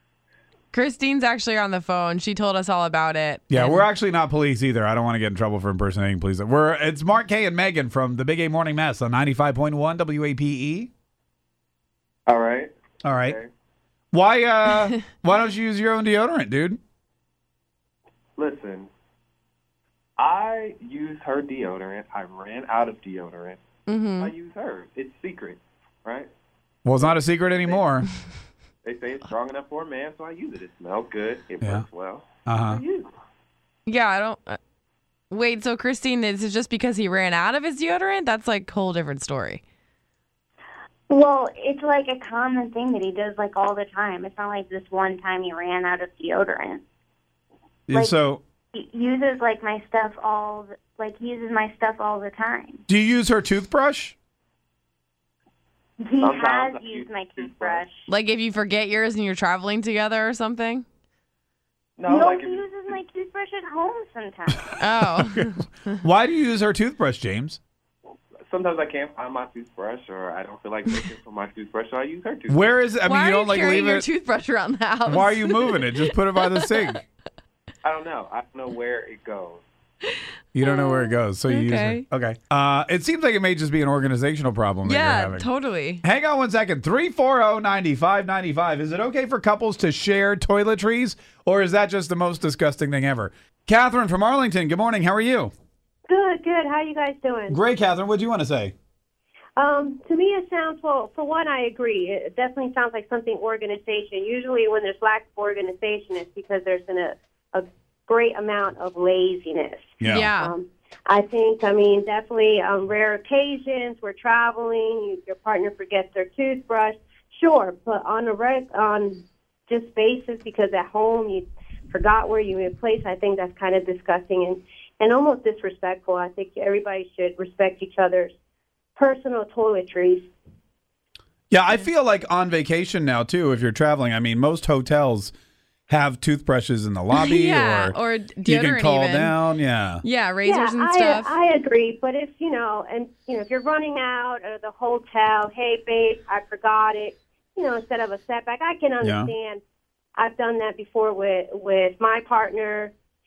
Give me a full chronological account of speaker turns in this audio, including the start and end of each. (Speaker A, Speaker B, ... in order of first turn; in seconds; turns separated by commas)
Speaker A: 0.7-3.8, Speaker B: 3.5-10.9, Speaker C: 12.3-13.5, Speaker B: 13.0-13.4, Speaker B: 14.1-16.8, Speaker C: 18.4-18.9, Speaker C: 20.2-23.6, Speaker A: 23.9-24.3, Speaker C: 24.2-26.3, Speaker B: 26.8-28.1, Speaker C: 26.9-27.9, Speaker C: 28.8-33.1, Speaker B: 31.6-31.9, Speaker B: 32.5-32.8, Speaker A: 33.9-34.6, Speaker A: 35.3-39.6, Speaker D: 41.2-46.8, Speaker B: 47.9-48.4, Speaker E: 47.9-48.2, Speaker D: 48.9-52.8, Speaker B: 52.9-54.1, Speaker E: 56.0-58.1, Speaker C: 56.2-57.9, Speaker D: 56.3-56.9, Speaker A: 58.1-60.8, Speaker C: 62.0-62.8, Speaker E: 62.1-64.6, Speaker A: 64.8-66.0, Speaker B: 65.1-65.5, Speaker B: 66.0-67.6, Speaker C: 68.5-72.7, Speaker B: 72.5-74.1, Speaker A: 73.0-76.9, Speaker B: 75.0-77.0, Speaker C: 77.8-79.7, Speaker A: 80.1-82.0, Speaker B: 80.5-85.5, Speaker A: 84.8-86.0, Speaker B: 86.0-95.5, Speaker E: 96.1-97.6, Speaker B: 97.5-98.7, Speaker E: 99.6-128.3, Speaker B: 110.0-110.3, Speaker A: 110.0-110.5, Speaker E: 128.9-130.3, Speaker B: 131.5-135.3, Speaker B: 135.9-140.0, Speaker A: 137.1-139.4, Speaker A: 140.0-141.3, Speaker E: 140.4-149.6, Speaker B: 149.0-149.3, Speaker E: 150.2-152.9